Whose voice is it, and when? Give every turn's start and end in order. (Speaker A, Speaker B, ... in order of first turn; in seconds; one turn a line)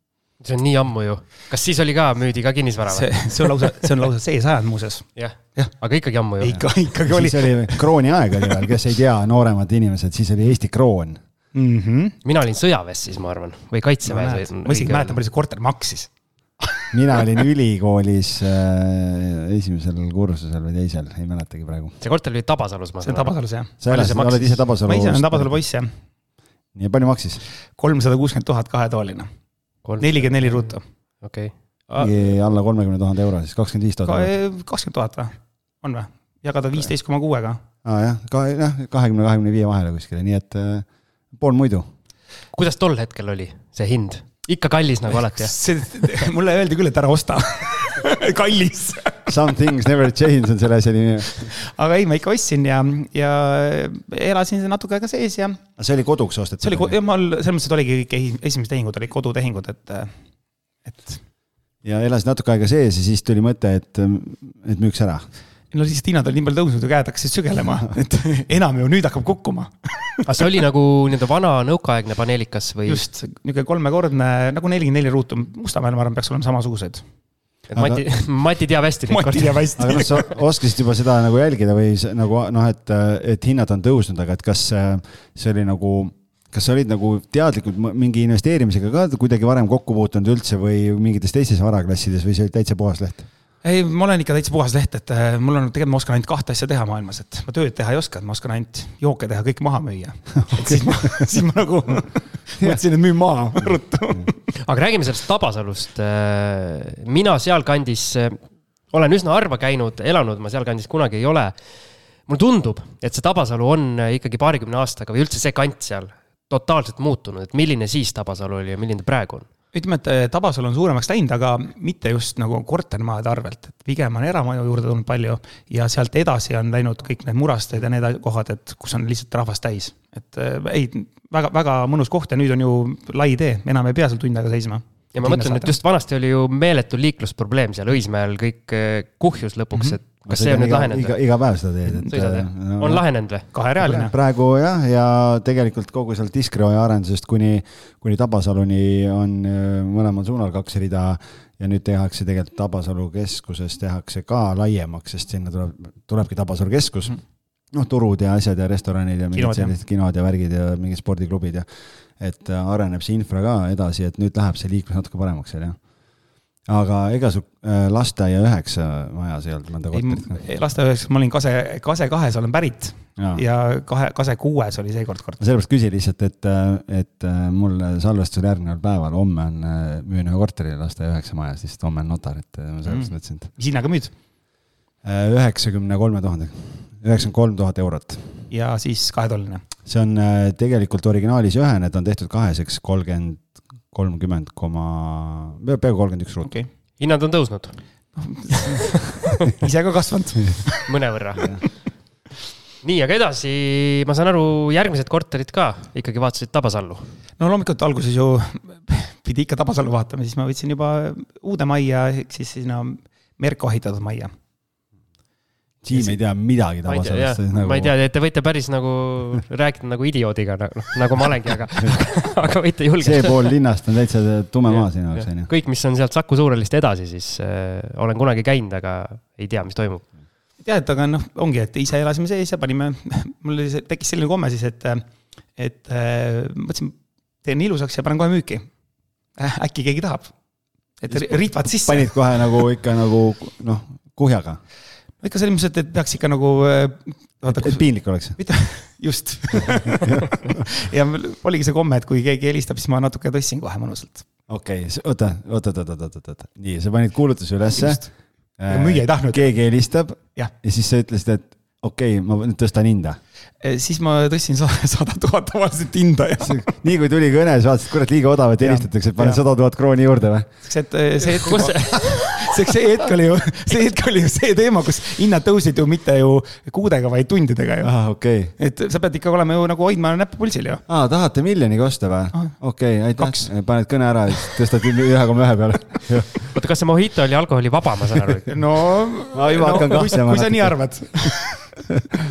Speaker A: 0.4-3.7
Speaker B: 2.9-5.8
Speaker A: 5.2-6.6
Speaker B: 6.4-8.7
Speaker C: 6.5-11.2
Speaker B: 11.5-12.2
Speaker A: 12.2-15.2
Speaker B: 14.0-16.1
Speaker B: 16.6-17.2
Speaker C: 16.9-22.0
Speaker A: 22.0-23.3
Speaker B: 23.0-25.9
Speaker C: 23.8-25.5
Speaker A: 23.9-24.2
Speaker C: 26.7-27.4
Speaker B: 27.8-29.3
Speaker A: 29.8-32.1
Speaker B: 30.0-30.8
Speaker C: 31.9-34.3
Speaker B: 34.0-37.6
Speaker C: 37.8-41.9
Speaker A: 42.5-45.5
Speaker B: 45.4-49.3
Speaker C: 49.3-51.5
Speaker B: 51.4-55.6
Speaker C: 55.8-57.0
Speaker B: 56.6-60.1
Speaker B: 60.8-61.2
Speaker C: 61.8-65.3
Speaker B: 65.7-70.2
Speaker A: 70.2-73.0
Speaker B: 72.8-77.0
Speaker C: 77.7-78.0
Speaker A: 77.7-80.0
Speaker B: 79.1-80.2
Speaker C: 79.8-93.3
Speaker B: 93.6-104.4
Speaker C: 100.5-100.8
Speaker A: 104.5-111.6
Speaker A: 112.2-119.5
Speaker B: 119.7-135.8
Speaker A: 135.1-141.1
Speaker C: 140.2-143.0
Speaker A: 142.1-143.5
Speaker B: 143.5-144.1
Speaker C: 143.8-157.2
Speaker C: 157.7-165.8
Speaker B: 159.3-159.7
Speaker C: 166.7-170.4
Speaker B: 169.9-175.4
Speaker C: 175.4-183.5
Speaker B: 182.8-184.1
Speaker C: 185.0-188.5
Speaker B: 188.5-189.6
Speaker C: 189.8-196.5
Speaker A: 197.0-197.8
Speaker B: 198.2-200.9
Speaker A: 198.5-198.8
Speaker A: 200.8-201.6
Speaker A: 202.8-207.1
Speaker B: 207.4-214.3
Speaker C: 215.8-217.9
Speaker A: 216.8-223.5
Speaker C: 223.0-225.5
Speaker A: 224.7-230.1
Speaker B: 230.6-238.7
Speaker B: 239.4-240.3
Speaker B: 241.0-242.2
Speaker C: 241.1-244.6
Speaker B: 245.2-254.2
Speaker C: 247.5-248.4
Speaker C: 250.0-250.6
Speaker C: 254.5-263.2
Speaker B: 257.8-258.1
Speaker B: 258.7-259.6
Speaker B: 263.6-266.7
Speaker C: 266.4-270.5
Speaker B: 268.6-269.4
Speaker B: 270.6-277.9
Speaker A: 271.2-272.4
Speaker C: 277.8-278.5
Speaker B: 278.6-280.8
Speaker C: 280.9-286.5
Speaker B: 283.1-283.5
Speaker A: 286.5-288.5
Speaker B: 288.5-291.8
Speaker C: 289.3-290.8